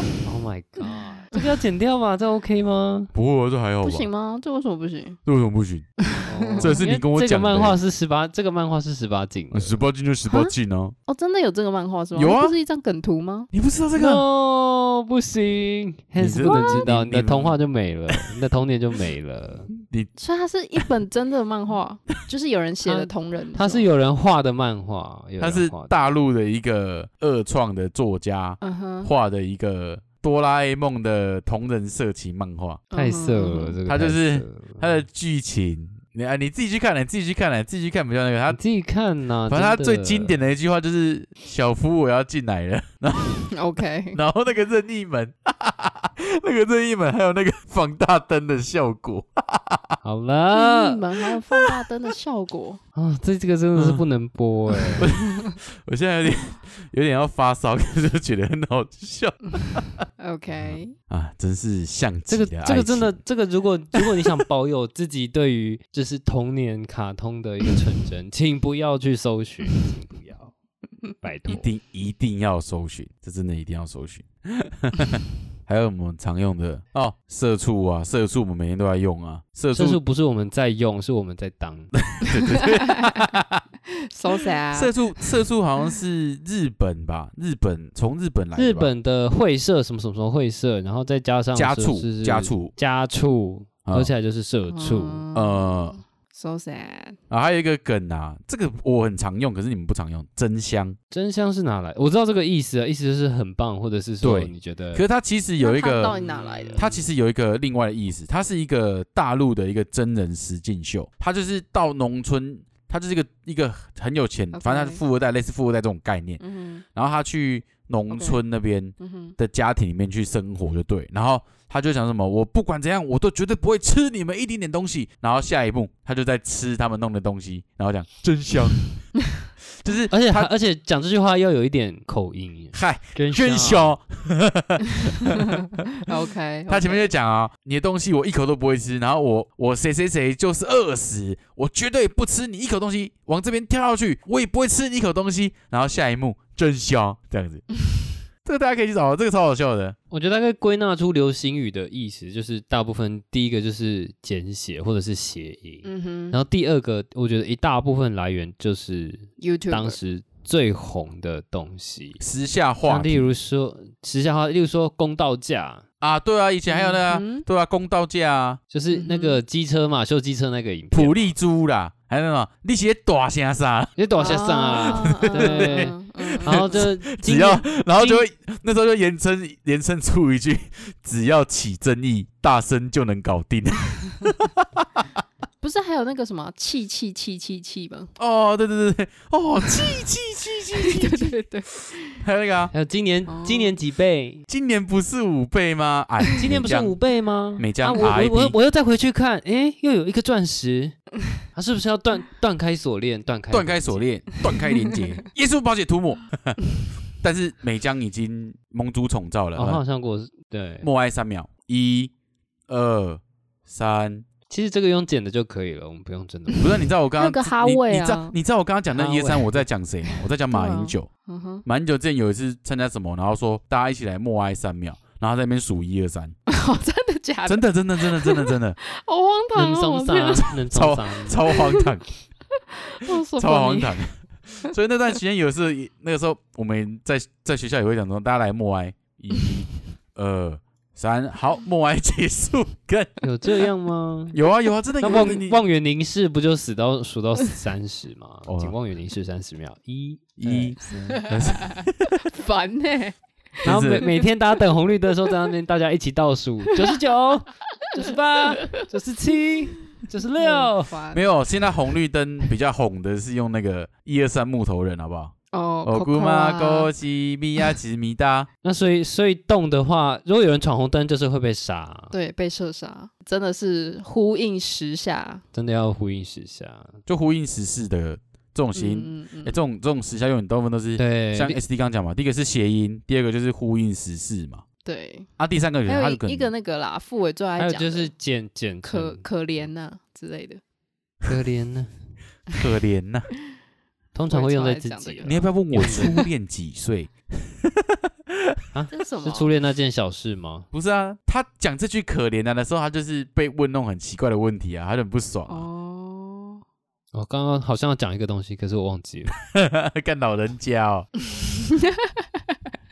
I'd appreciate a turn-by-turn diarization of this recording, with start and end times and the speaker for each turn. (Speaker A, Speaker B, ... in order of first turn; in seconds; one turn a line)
Speaker A: 0.2-3.1
Speaker B: 3.1-4.1
Speaker C: 3.8-5.2
Speaker B: 5.2-5.9
Speaker C: 6.0-6.8
Speaker A: 6.2-9.8
Speaker B: 6.6-7.8
Speaker B: 9.5-10.9
Speaker C: 10.3-10.5
Speaker C: 11.1-13.5
Speaker B: 12.2-12.6
Speaker B: 13.5-14.2
Speaker A: 14.0-19.7
Speaker B: 16.2-17.6
Speaker C: 16.4-16.9
Speaker B: 19.8-20.1
Speaker C: 20.2-23.9
Speaker A: 22.8-26.0
Speaker B: 25.4-32.8
Speaker C: 28.6-29.1
Speaker C: 32.9-33.8
Speaker A: 32.9-35.0
Speaker B: 33.9-38.6
Speaker A: 38.5-40.5
Speaker B: 39.5-43.5
Speaker C: 43.5-44.2
Speaker B: 44.1-50.0
Speaker A: 50.0-51.0
Speaker C: 50.5-52.8
Speaker B: 51.5-51.8
Speaker A: 53.0-55.1
Speaker B: 53.8-54.0
Speaker B: 55.0-60.0
Speaker C: 60.2-60.9
Speaker B: 60.6-63.2
Speaker A: 62.3-70.5
Speaker A: 71.2-71.7
Speaker B: 71.5-80.0
Speaker A: 79.7-81.9
Speaker B: 82.1-83.6
Speaker C: 82.5-83.3
Speaker C: 83.9-85.2
Speaker B: 84.7-88.9
Speaker A: 88.5-95.2
Speaker B: 91.5-92.7
Speaker B: 93.9-94.1
Speaker C: 94.7-97.2
Speaker B: 95.3-96.0
Speaker B: 97.3-101.0
Speaker A: 101.1-105.0
Speaker B: 104.2-106.2
Speaker C: 105.6-106.9
Speaker A: 106.1-107.0
Speaker B: 106.8-116.4
Speaker C: 114.5-115.0
Speaker C: 116.4-116.8
Speaker B: 117.0-129.1
Speaker C: 118.1-118.4
Speaker C: 119.0-119.4
Speaker B: 129.8-130.5
Speaker A: 130.1-134.0
Speaker B: 132.7-135.6
Speaker C: 136.0-137.1
Speaker B: 136.7-147.7
Speaker B: 148.4-150.0
Speaker A: 150.1-162.2
Speaker C: 155.8-156.4
Speaker C: 159.4-160.0
Speaker B: 162.2-163.3
Speaker A: 162.8-165.8
Speaker B: 166.0-168.6
Speaker C: 166.7-167.5
Speaker A: 168.7-171.3
Speaker C: 168.9-169.4
Speaker B: 170.9-185.1
Speaker A: 174.0-178.3
Speaker C: 174.2-176.9
Speaker C: 185.6-188.1
Speaker B: 188.2-191.3
Speaker C: 189.6-190.0
Speaker C: 190.7-192.2
Speaker B: 192.2-192.7
Speaker A: 192.7-194.5
Speaker C: 193.3-193.8
Speaker B: 194.5-197.0
Speaker A: 196.4-201.0
Speaker B: 197.6-198.6
Speaker A: 201.6-204.1
Speaker B: 203.5-206.6
Speaker B: 207.2-209.8
Speaker A: 209.6-210.9
Speaker B: 210.8-212.1
Speaker B: 212.7-214.3
Speaker A: 214.5-216.7
Speaker B: 216.6-221.1
Speaker C: 217.2-218.4
Speaker A: 218.9-219.7
Speaker C: 220.1-221.7
Speaker B: 221.7-226.4
Speaker C: 226.5-230.5
Speaker B: 227.5-228.8
Speaker A: 229.5-231.4
Speaker B: 230.6-232.1
Speaker C: 231.5-231.9
Speaker C: 232.8-234.0
Speaker B: 233.4-243.2
Speaker A: 243.2-244.4
Speaker B: 244.3-245.6
Speaker A: 245.0-251.2
Speaker B: 248.5-248.8
Speaker B: 250.4-252.2
Speaker C: 251.1-253.2
Speaker B: 253.6-254.1
Speaker A: 253.6-260.9
Speaker C: 257.9-258.8
Speaker C: 260.4-261.7
Speaker B: 261.1-265.3
Speaker C: 265.5-266.9
Speaker B: 265.9-268.5
Speaker A: 268.6-272.1
Speaker C: 272.1-275.4
Speaker A: 275.5-277.0
Speaker B: 277.1-284.6
Speaker C: 278.8-279.6
Speaker A: 281.0-281.6
Speaker C: 284.8-285.3
Speaker B: 285.4-286.5
Speaker C: 285.9-288.1
Speaker A: 287.6-289.2
Speaker C: 288.8-290.6
Speaker A: 291.3-291.9
Speaker B: 292.5-293.3
Speaker A: 294.1-296.2
Speaker C: 294.3-295.4
Speaker B: 295.2-298.6
Speaker A: 298.7-300.7
Speaker C: 298.9-299.5
Speaker B: 300.7-305.7
Speaker C: 305.5-306.6
Speaker A: 307.1-309.4
Speaker B: 309.4-311.1
Speaker C: 311.2-312.5